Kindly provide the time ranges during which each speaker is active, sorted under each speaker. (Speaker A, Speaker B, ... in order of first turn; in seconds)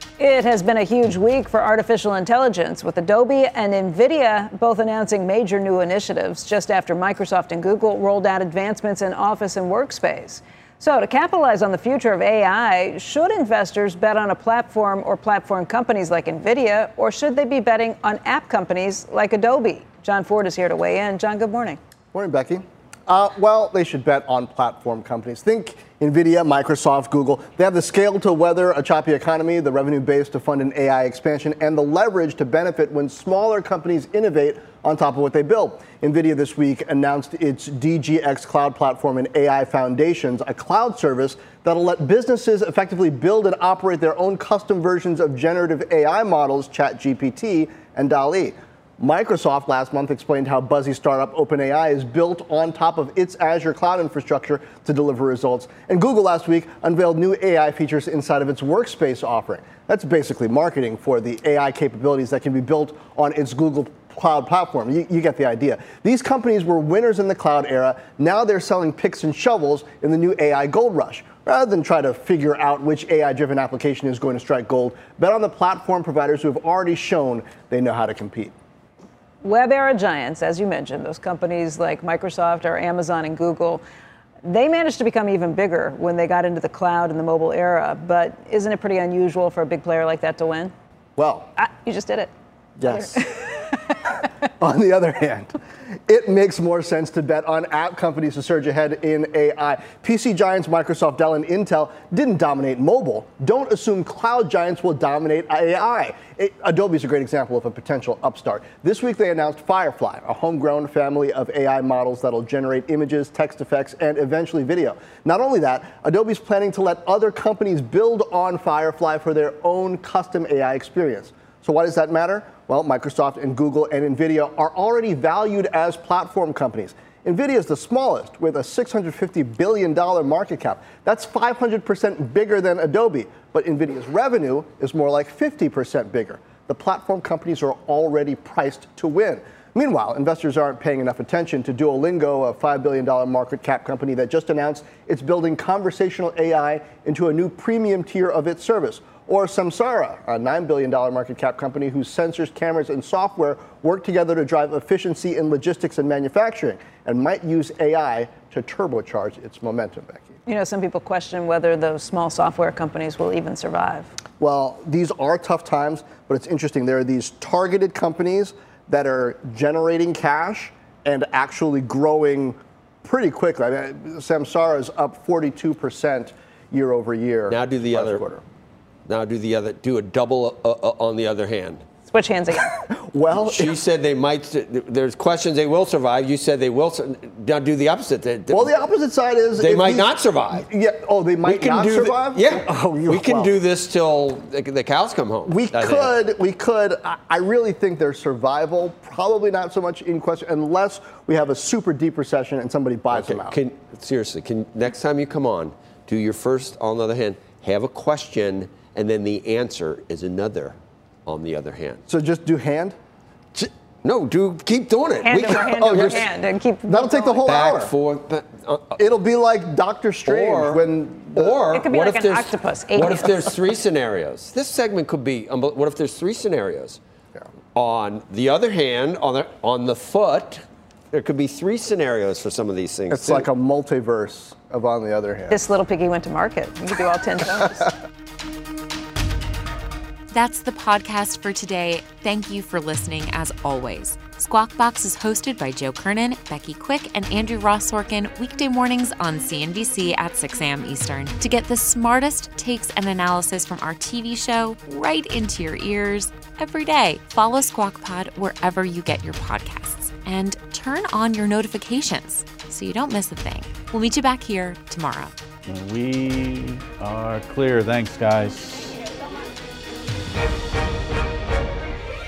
Speaker A: 0.2-21.8, 79.4-83.8, 84.5-90.7, 91.6-92.3, 92.9-93.8, 160.5-164.1, 182.1-182.7, 215.2-217.4, 221.7-223.5, 235.5-237.9
Speaker B: 22.1-78.5, 91.2-91.5, 92.8-93.2, 94.6-160.3, 164.4-178.4, 182.9-183.8, 188.5-193.5, 195.5-203.6, 212.1-213.0, 215.7-216.3, 216.9-217.9, 218.9-221.7, 233.1-235.6
Speaker C: 177.5-178.3, 179.1-181.8, 183.4-188.7, 189.6-190.7, 191.4-196.1, 203.1-212.0, 213.6-216.3, 217.4-218.9, 220.3-227.0, 227.8-233.5
Speaker D: 240.3-265.3
Speaker E: 265.6-269.0